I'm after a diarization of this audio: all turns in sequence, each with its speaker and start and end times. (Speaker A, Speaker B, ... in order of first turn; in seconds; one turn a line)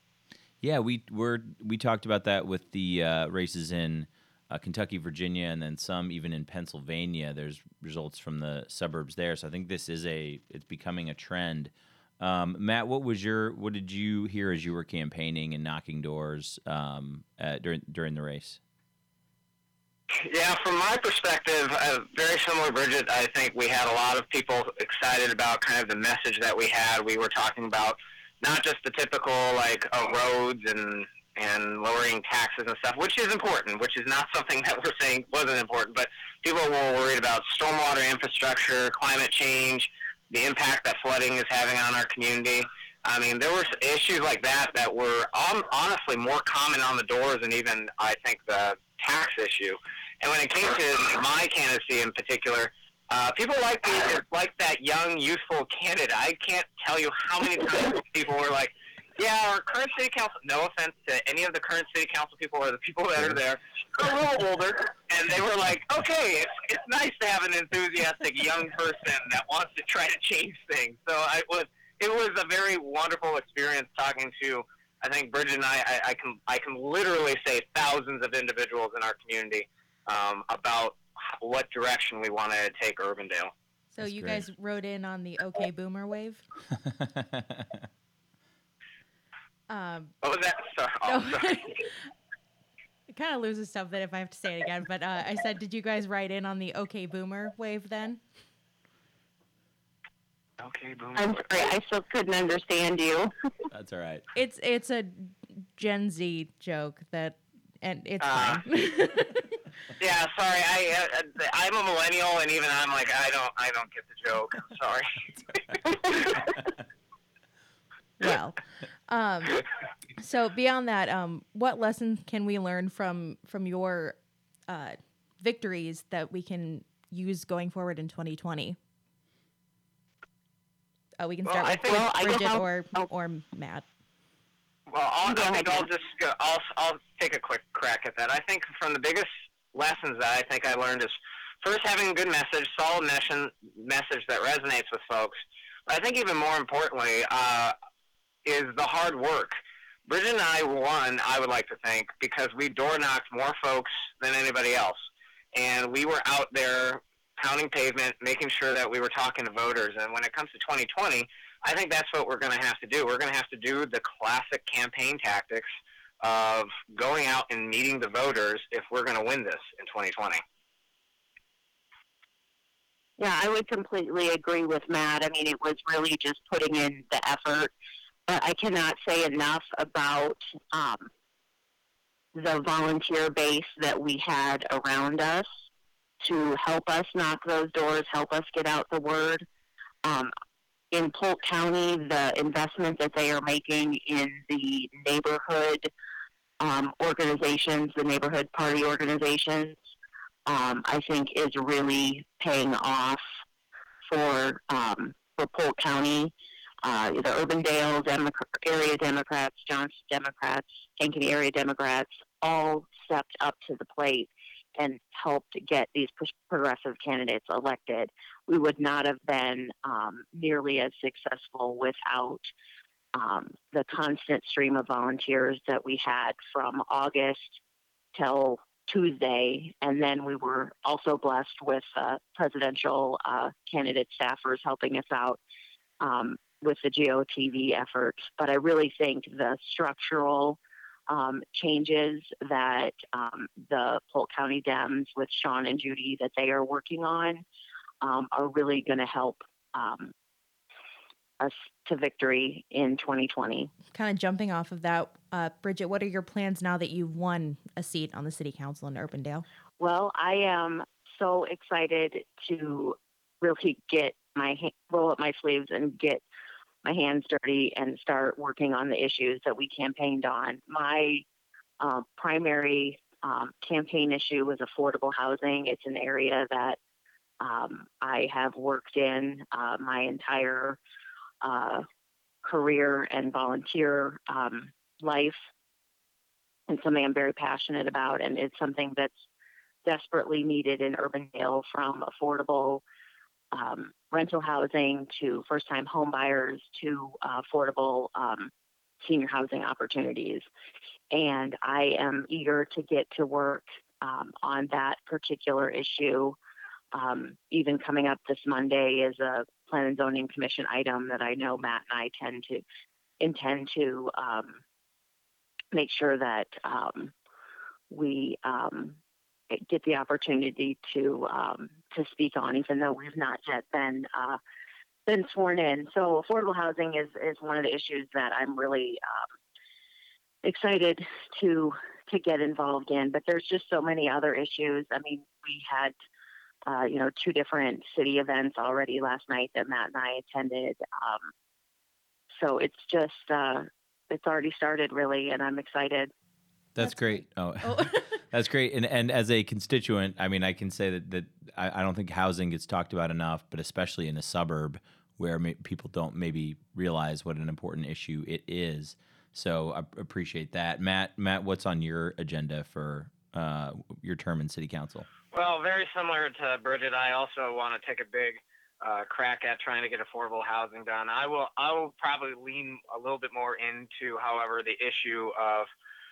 Speaker A: 0.6-18.6
Speaker B: 20.1-83.5
Speaker C: 83.9-86.4
Speaker A: 84.0-84.4
Speaker A: 86.9-87.8
Speaker C: 89.7-90.1
Speaker B: 90.2-91.7
Speaker C: 91.0-91.9
Speaker C: 93.1-98.2
Speaker B: 100.6-101.7
Speaker D: 101.2-103.3
Speaker A: 103.7-104.2
Speaker C: 104.3-109.6
Speaker B: 108.2-108.6
Speaker B: 110.0-116.6
Speaker C: 118.2-119.6
Speaker C: 120.2-124.2
Speaker C: 124.7-128.8
Speaker C: 131.2-133.8
Speaker B: 131.4-132.1
Speaker D: 132.1-133.0
Speaker B: 134.9-147.7
Speaker D: 135.2-135.9
Speaker B: 148.4-155.0
Speaker B: 155.5-165.7
Speaker B: 166.2-170.4
Speaker D: 173.2-177.7
Speaker D: 178.3-181.1
Speaker D: 182.3-185.5
Speaker D: 186.2-189.4
Speaker D: 190.0-190.3
Speaker D: 190.9-195.9
Speaker D: 196.6-199.9
Speaker D: 200.4-203.2
Speaker D: 204.1-222.5
Speaker D: 223.1-227.6
Speaker D: 228.1-235.4
Speaker D: 236.0-247.4
Speaker D: 248.0-250.1
Speaker D: 251.4-253.7
Speaker C: 253.9-259.4
Speaker D: 259.8-266.2
Speaker D: 266.8-271.2
Speaker D: 271.8-276.8
Speaker D: 277.4-280.8
Speaker D: 281.4-281.8
Speaker D: 282.4-285.4
Speaker D: 286.7-289.2
Speaker D: 289.8-292.8
Speaker D: 293.5-298.5
Speaker D: 299.0-300.4
Speaker D: 301.1-306.4
Speaker D: 306.9-312.6
Speaker D: 313.2-314.6
Speaker D: 315.7-317.1
Speaker D: 317.9-319.0
Speaker D: 319.5-324.4
Speaker D: 325.1-329.2
Speaker D: 330.4-335.9
Speaker D: 336.6-341.3
Speaker D: 342.4-346.1
Speaker A: 346.7-365.1
Speaker C: 347.6-348.0
Speaker B: 365.3-375.7